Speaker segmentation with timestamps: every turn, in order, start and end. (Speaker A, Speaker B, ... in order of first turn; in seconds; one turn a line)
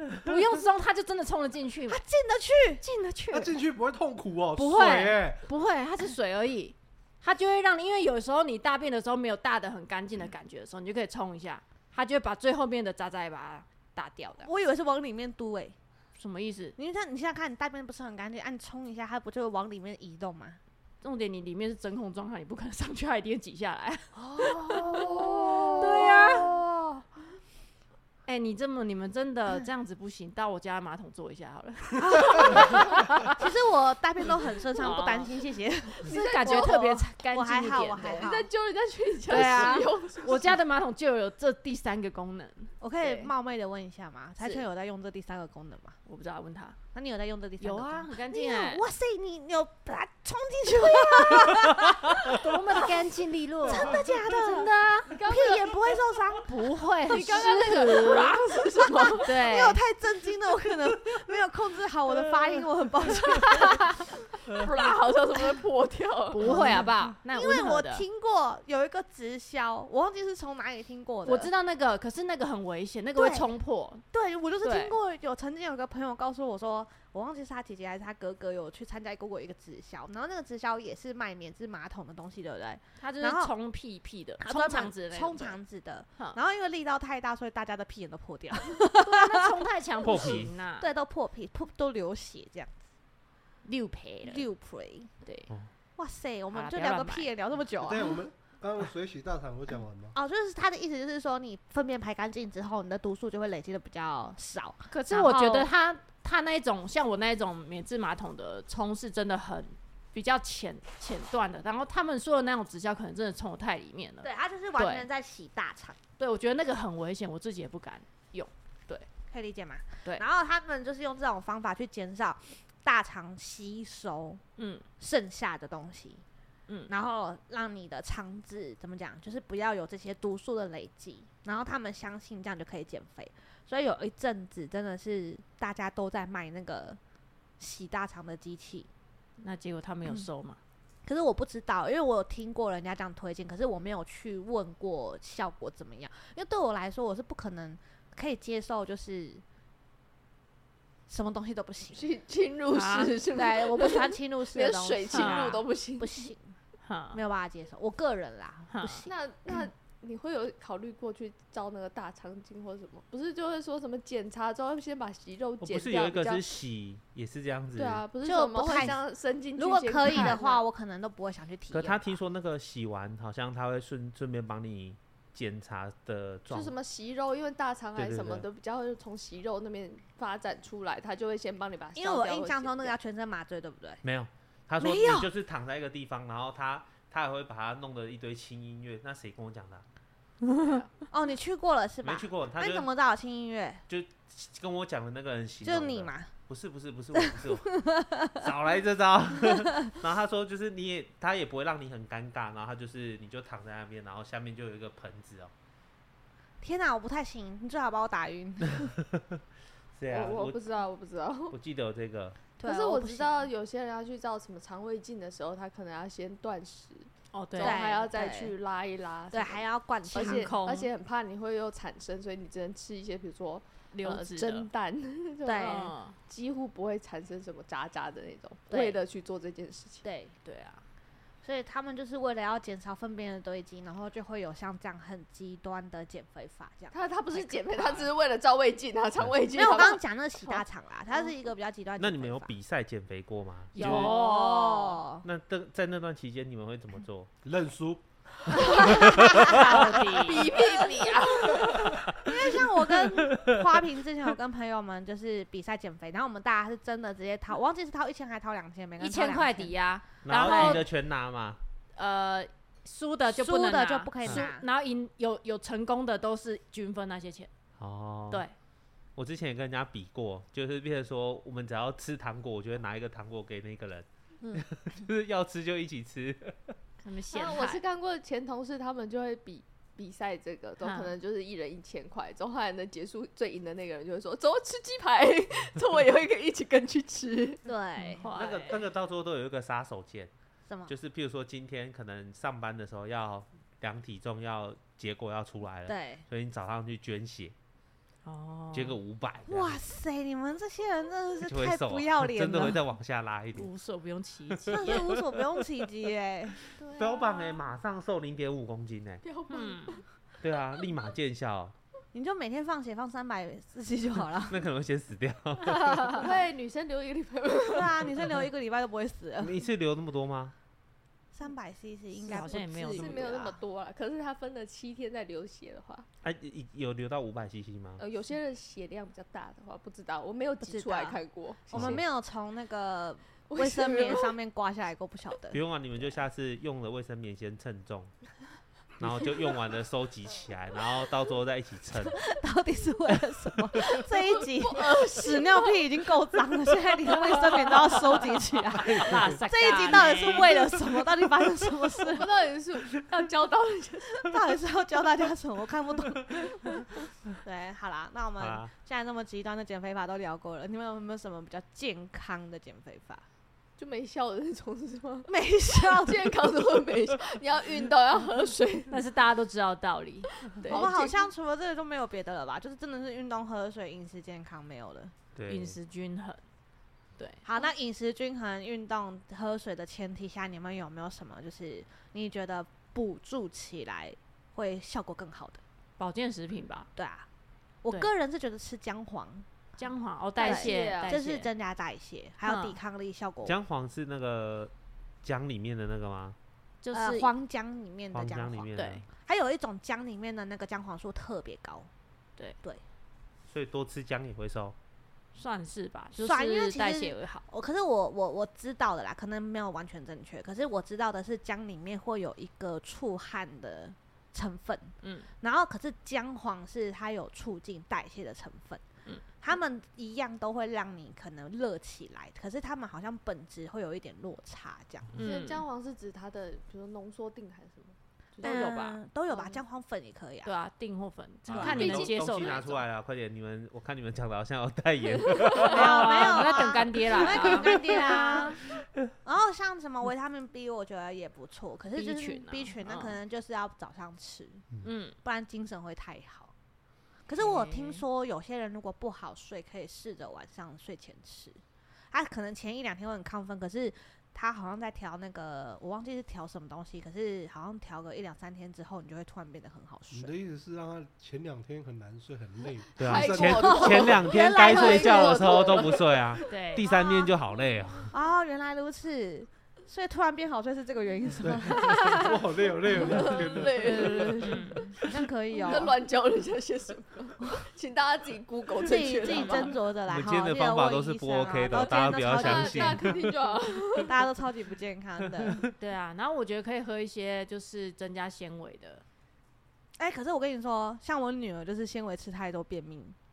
Speaker A: 0.2-2.0
Speaker B: 1.9-2.8
Speaker A: 2.8-3.5
Speaker C: 3.3-5.5
Speaker A: 4.5-14.5
Speaker B: 14.4-15.8
Speaker A: 16.2-16.7
Speaker B: 16.8-20.6
Speaker A: 21.0-24.1
Speaker B: 24.1-27.0
Speaker D: 24.6-26.5
Speaker A: 25.8-26.5
Speaker A: 28.2-33.4
Speaker B: 32.0-38.5
Speaker A: 34.8-35.3
Speaker D: 35.9-37.0
Speaker A: 36.1-38.3
Speaker D: 38.1-40.6
Speaker B: 39.3-40.5
Speaker A: 39.3-43.3
Speaker B: 42.8-46.0
Speaker A: 46.0-46.8
Speaker B: 46.9-52.9
Speaker A: 47.6-48.8
Speaker A: 52.3-55.2
Speaker B: 53.6-56.7
Speaker D: 55.1-55.8
Speaker A: 56.5-58.5
Speaker D: 57.1-59.3
Speaker B: 58.9-64.0
Speaker A: 59.1-59.8
Speaker A: 63.5-63.8
Speaker D: 64.5-66.6
Speaker A: 66.3-68.0
Speaker B: 66.4-71.5
Speaker A: 71.2-74.0
Speaker B: 73.1-73.5
Speaker B: 74.1-83.5
Speaker A: 74.6-74.9
Speaker A: 83.0-85.6
Speaker B: 84.4-89.5
Speaker A: 89.0-90.9
Speaker E: 90.0-90.5
Speaker B: 90.0-92.8
Speaker A: 93.6-94.5
Speaker B: 94.2-95.1
Speaker A: 95.2-95.5
Speaker B: 96.0-98.2
Speaker A: 96.5-97.3
Speaker C: 97.8-100.1
Speaker B: 100.1-105.7
Speaker A: 104.9-115.0
Speaker B: 114.2-116.0
Speaker A: 116.2-119.1
Speaker B: 119.3-124.4
Speaker A: 124.6-124.8
Speaker B: 125.0-126.2
Speaker B: 126.9-137.0
Speaker B: 137.6-138.9
Speaker A: 139.4-140.6
Speaker B: 141.0-149.4
Speaker B: 151.1-152.1
Speaker D: 151.9-156.3
Speaker A: 152.7-153.2
Speaker B: 153.3-156.6
Speaker A: 155.1-155.6
Speaker A: 156.8-157.2
Speaker B: 157.1-159.1
Speaker A: 158.7-159.1
Speaker D: 159.1-166.4
Speaker E: 165.6-168.0
Speaker D: 167.8-170.6
Speaker B: 168.2-169.0
Speaker B: 169.5-172.2
Speaker A: 170.0-170.3
Speaker E: 171.7-176.7
Speaker D: 176.5-182.9
Speaker E: 177.9-178.5
Speaker B: 181.9-184.0
Speaker E: 184.0-189.8
Speaker B: 184.8-185.3
Speaker A: 190.5-190.8
Speaker B: 191.1-193.8
Speaker E: 192.0-192.9
Speaker E: 193.9-205.5
Speaker B: 195.6-196.3
Speaker B: 197.1-198.4
Speaker B: 206.6-208.9
Speaker E: 208.8-209.2
Speaker E: 210.0-210.6
Speaker D: 210.1-211.6
Speaker E: 211.5-212.4
Speaker B: 212.6-213.5
Speaker D: 212.6-230.0
Speaker A: 217.3-217.8
Speaker B: 217.6-218.5
Speaker B: 219.3-220.5
Speaker A: 220.1-220.9
Speaker A: 223.9-224.7
Speaker B: 225.4-225.9
Speaker A: 225.6-226.2
Speaker B: 228.7-229.0
Speaker B: 230.0-230.4
Speaker A: 230.4-230.8
Speaker B: 231.4-238.1
Speaker D: 236.9-240.0
Speaker B: 239.5-242.5
Speaker E: 242.0-244.1
Speaker A: 243.7-245.0
Speaker B: 243.8-245.2
Speaker E: 245.2-247.3
Speaker C: 247.4-248.0
Speaker D: 248.6-248.9
Speaker E: 248.7-249.5
Speaker A: 249.1-250.5
Speaker D: 249.6-251.9
Speaker B: 250.6-251.2
Speaker B: 252.2-259.7
Speaker E: 253.0-253.7
Speaker A: 259.0-260.9
Speaker E: 260.2-261.6
Speaker B: 260.3-260.9
Speaker A: 261.9-267.5
Speaker B: 263.3-264.6
Speaker E: 267.8-268.4
Speaker E: 269.1-276.7
Speaker A: 277.0-277.8
Speaker D: 277.3-287.6
Speaker A: 280.8-281.1
Speaker B: 287.6-288.3
Speaker A: 288.0-288.8
Speaker E: 288.3-290.3
Speaker B: 290.7-290.9
Speaker E: 290.9-297.5
Speaker B: 295.9-296.2
Speaker A: 298.2-299.0
Speaker E: 298.7-299.8
Speaker B: 299.5-302.8
Speaker E: 301.4-303.7
Speaker A: 303.5-305.1
Speaker E: 304.6-305.2
Speaker B: 304.7-306.6
Speaker E: 306.7-309.2
Speaker D: 306.8-307.6
Speaker D: 309.2-310.0
Speaker A: 309.5-310.0
Speaker E: 310.4-311.7
Speaker B: 312.1-314.6
Speaker E: 314.5-316.1
Speaker A: 315.8-316.2
Speaker D: 316.1-318.1
Speaker B: 317.6-319.6
Speaker E: 319.4-320.5
Speaker B: 321.3-323.6
Speaker A: 322.2-323.2
Speaker D: 322.9-326.1
Speaker E: 326.2-328.0
Speaker D: 328.0-332.0
Speaker B: 330.6-331.2
Speaker B: 331.7-335.6
Speaker E: 331.7-332.0
Speaker D: 333.5-334.3
Speaker E: 335.5-338.1
Speaker E: 339.0-342.2
Speaker B: 342.0-352.3
Speaker D: 343.8-345.8
Speaker C: 348.8-349.2
Speaker A: 349.0-350.7
Speaker D: 352.1-354.4
Speaker B: 354.2-363.2
Speaker E: 358.4-358.7
Speaker D: 363.8-368.9
Speaker B: 365.3-366.4
Speaker A: 368.9-370.9
Speaker D: 370.4-371.2
Speaker B: 370.6-375.1
Speaker E: 375.3-375.8
Speaker A: 375.5-376.4
Speaker A: 377.2-377.4
Speaker B: 377.4-385.6
Speaker A: 386.0-386.9
Speaker B: 386.9-387.3
Speaker B: 387.8-389.8
Speaker A: 389.8-391.5
Speaker D: 390.4-391.1
Speaker B: 390.4-393.6
Speaker A: 392.4-392.8
Speaker E: 393.4-394.7
Speaker E: 395.2-396.4
Speaker A: 396.8-397.3
Speaker B: 396.9-401.9
Speaker E: 398.1-399.1
Speaker A: 398.7-399.0
Speaker E: 403.5-404.7
Speaker A: 405.3-407.4
Speaker B: 406.1-418.8
Speaker A: 415.0-415.3
Speaker B: 419.4-425.1
Speaker A: 425.1-425.6
Speaker D: 425.2-428.7
Speaker B: 428.4-430.5
Speaker A: 428.4-429.0
Speaker D: 429.3-429.6
Speaker A: 430.4-432.8
Speaker E: 431.5-436.6
Speaker B: 431.5-431.8
Speaker D: 431.7-432.6
Speaker D: 435.2-435.7
Speaker B: 435.6-438.7
Speaker A: 435.6-438.6
Speaker E: 437.4-438.0
Speaker B: 439.2-444.7
Speaker A: 441.9-443.2
Speaker A: 444.8-445.1
Speaker B: 445.2-446.5
Speaker B: 447.3-460.3
Speaker A: 447.4-448.0
Speaker C: 460.1-464.2
Speaker D: 463.0-467.1
Speaker E: 463.0-468.1
Speaker B: 463.8-465.9
Speaker A: 466.5-466.9
Speaker B: 468.1-472.2
Speaker C: 471.4-474.4
Speaker A: 471.8-472.2
Speaker B: 473.0-475.9
Speaker D: 473.1-474.8
Speaker A: 474.4-474.9
Speaker D: 475.6-479.8
Speaker B: 478.8-485.7
Speaker E: 480.1-483.2
Speaker D: 481.7-484.2
Speaker A: 485.7-489.0
Speaker B: 490.0-493.1